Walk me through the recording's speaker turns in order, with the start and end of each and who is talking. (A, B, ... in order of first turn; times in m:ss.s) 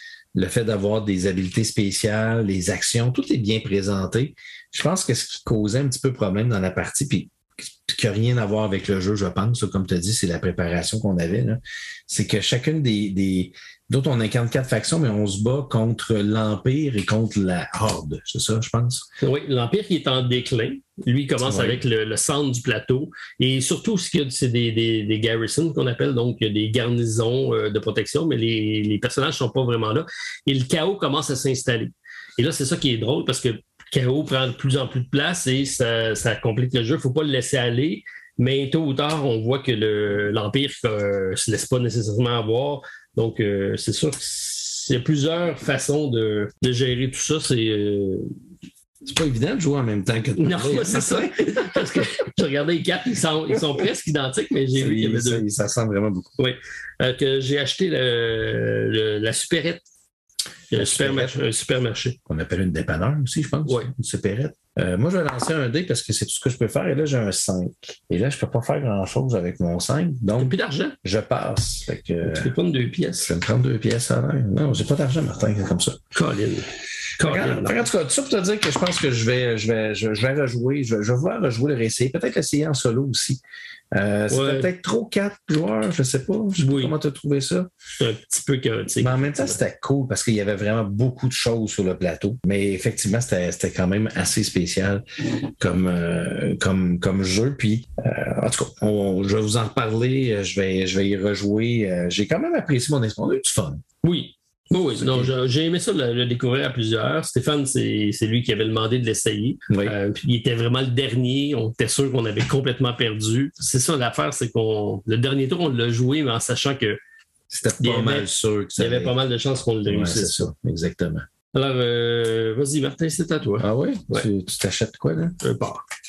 0:00.3-0:19.1 A
0:19.2-0:48.3 B
0:21.4-0:21.8 A
0:49.0-0:52.1 A
0:50.4-0:55.4 B
0:54.8-0:56.3 A
0:56.4-0:59.8 B
1:00.7-1:02.2 B
1:00.7-1:01.4 A
1:02.3-1:12.5 A
1:03.7-1:03.9 B
1:10.4-1:11.0 B
1:12.2-1:13.3 B
1:13.2-1:16.0 A
1:16.1-1:17.8 B
1:17.2-1:23.4 A
1:23.9-1:27.7 A
1:24.3-1:24.7 B
1:26.6-1:27.0 B
1:28.0-1:29.6 B
1:29.0-1:43.8 A
1:44.0-1:57.0 B
1:45.0-1:45.3 A
1:49.7-1:50.0 A
1:57.5-1:59.2 A
1:57.8-2:00.5 B
1:59.9-2:01.3 A
2:01.5-2:04.3 B
2:03.6-2:05.4 A
2:05.4-2:05.8 B